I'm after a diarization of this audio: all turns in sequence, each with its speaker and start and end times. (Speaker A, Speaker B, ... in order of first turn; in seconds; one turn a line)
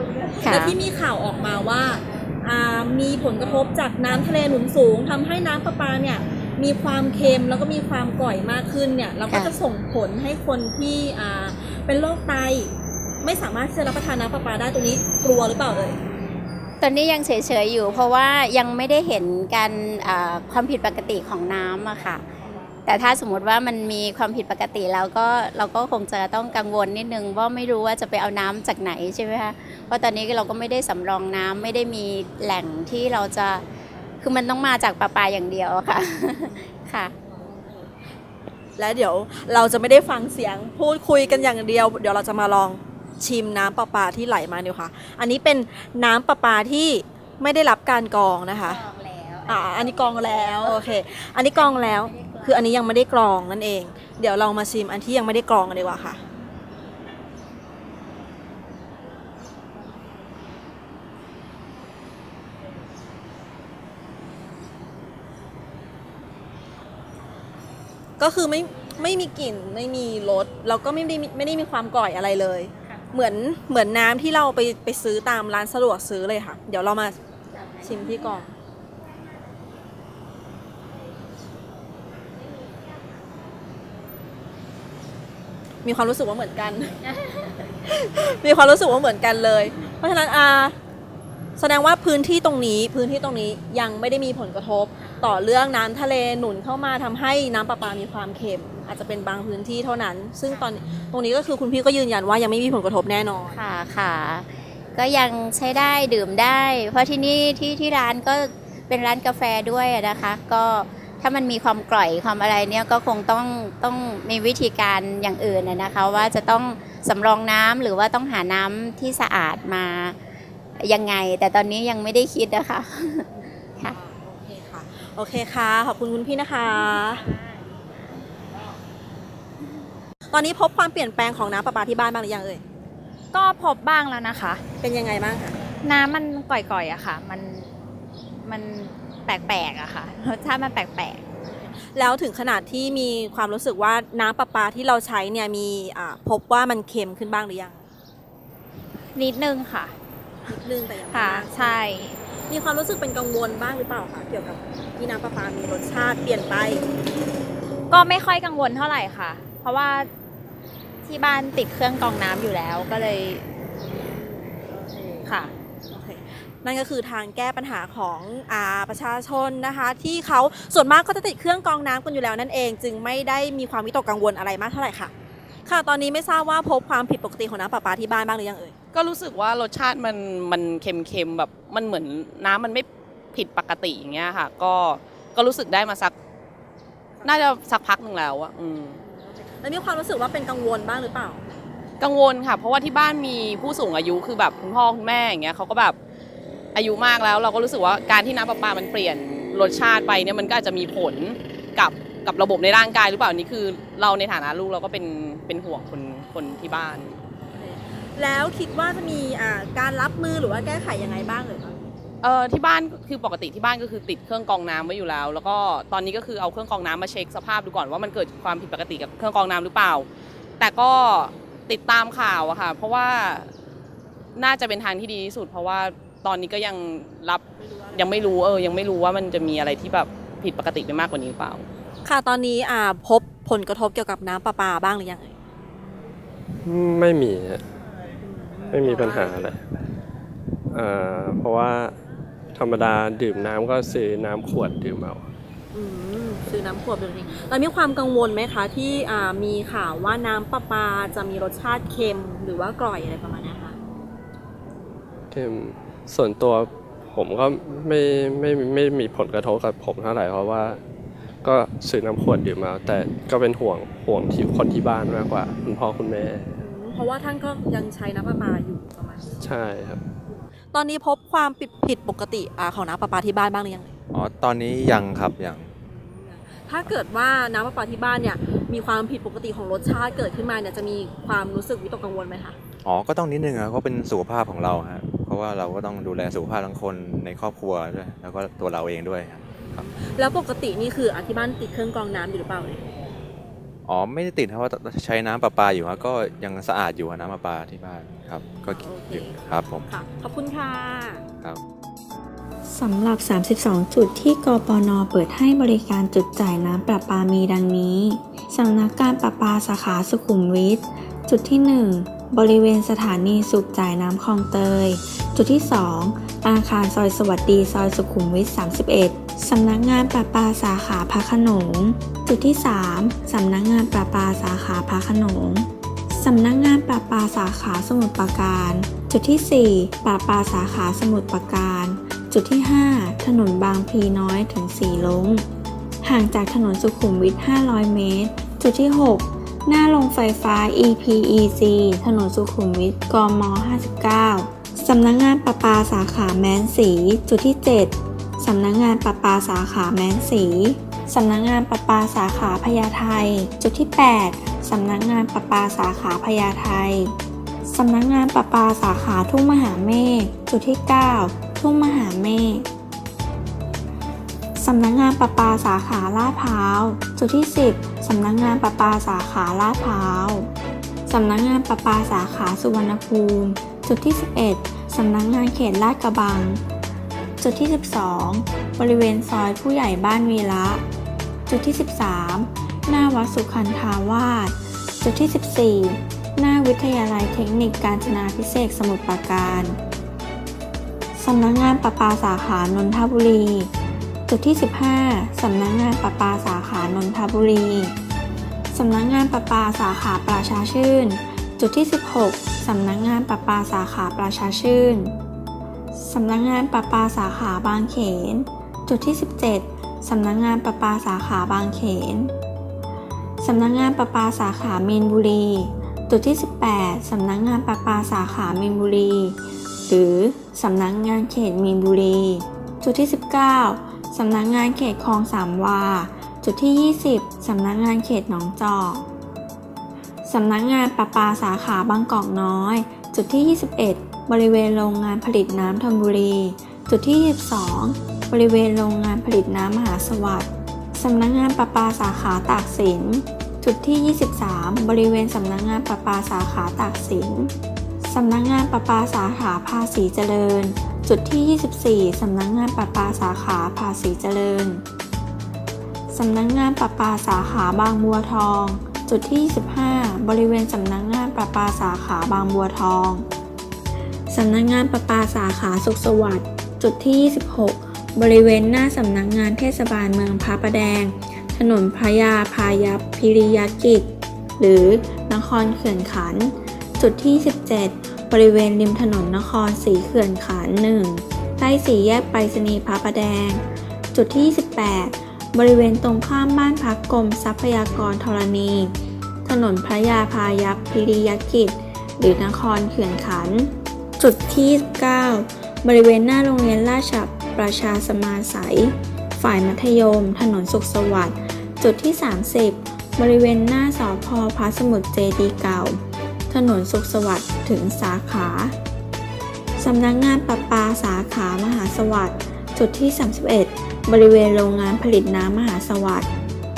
Speaker A: 0.4-12.7
Speaker B: 0.4-0.8
Speaker B: 9.3-9.6
Speaker A: 13.2-16.0
Speaker B: 16.8-22.2
Speaker B: 22.9-33.6
Speaker B: 34.2-37.1
Speaker A: 38.8-48.8
Speaker B: 48.6-50.9
Speaker A: 49.5-56.2
Speaker B: 51.5-52.7
Speaker A: 68.2-77.2
Speaker A: 77.8-78.5
Speaker A: 85.8-87.1
Speaker A: 87.7-90.8
Speaker A: 91.6-103.5
Speaker B: 103.5-120.2
Speaker B: 120.8-123.3
Speaker A: 123.8-127.2
Speaker A: 130.3-132.6
Speaker C: 133.3-134.6
Speaker A: 134.8-135.6
Speaker C: 135.8-137.7
Speaker C: 138.4-141.2
Speaker A: 141.9-147.8
Speaker C: 149.2-149.9
Speaker A: 150.5-151.8
Speaker C: 151.1-152.2
Speaker A: 152.5-156.9
Speaker C: 157.9-160.1
Speaker C: 161.1-163.5
Speaker A: 163.9-165.3
Speaker C: 165.2-165.5
Speaker A: 165.9-175.1
Speaker A: 175.7-178.7
Speaker D: 178.9-186.1
Speaker A: 187.2-187.6
Speaker D: 187.2-189.0
Speaker A: 189.0-191.4
Speaker D: 192.0-196.0
Speaker D: 196.8-207.2
Speaker A: 207.5-211.8
Speaker D: 212.2-220.1
Speaker D: 220.6-223.5
Speaker D: 224.4-227.4
Speaker D: 227.9-231.7
Speaker A: 232.1-235.3
Speaker E: 236.6-237.6
Speaker A: 238.2-239.4
Speaker E: 238.7-239.6
Speaker E: 240.7-242.0
Speaker E: 242.5-245.3
Speaker A: 245.7-253.8
Speaker E: 255.3-260.8
Speaker E: 261.4-266.6
Speaker A: 266.6-269.3
Speaker E: 269.4-270.0
Speaker A: 270.7-273.9
Speaker F: 274.1-275.7
Speaker A: 275.9-282.6
Speaker F: 282.8-289.9
Speaker A: 290.0-292.8
Speaker F: 293.9-299.9
Speaker A: 298.6-301.2
Speaker G: 302.7-335.5
Speaker G: 336.0-357.1
Speaker G: 357.7-362.7
Speaker G: 364.6-370.5
Speaker G: 371.1-376.6
Speaker G: 377.4-380.8
Speaker G: 381.5-389.8
Speaker G: 391.2-393.7
Speaker G: 394.3-397.9
Speaker G: 398.7-405.1
Speaker G: 405.9-412.3
Speaker G: 413.4-429.1
Speaker G: 430.2-454.8
Speaker G: 456.1-463.3
Speaker G: 464.3-483.6
Speaker G: 484.1-488.9
Speaker G: 489.4-508.8
Speaker G: 509.8-516.3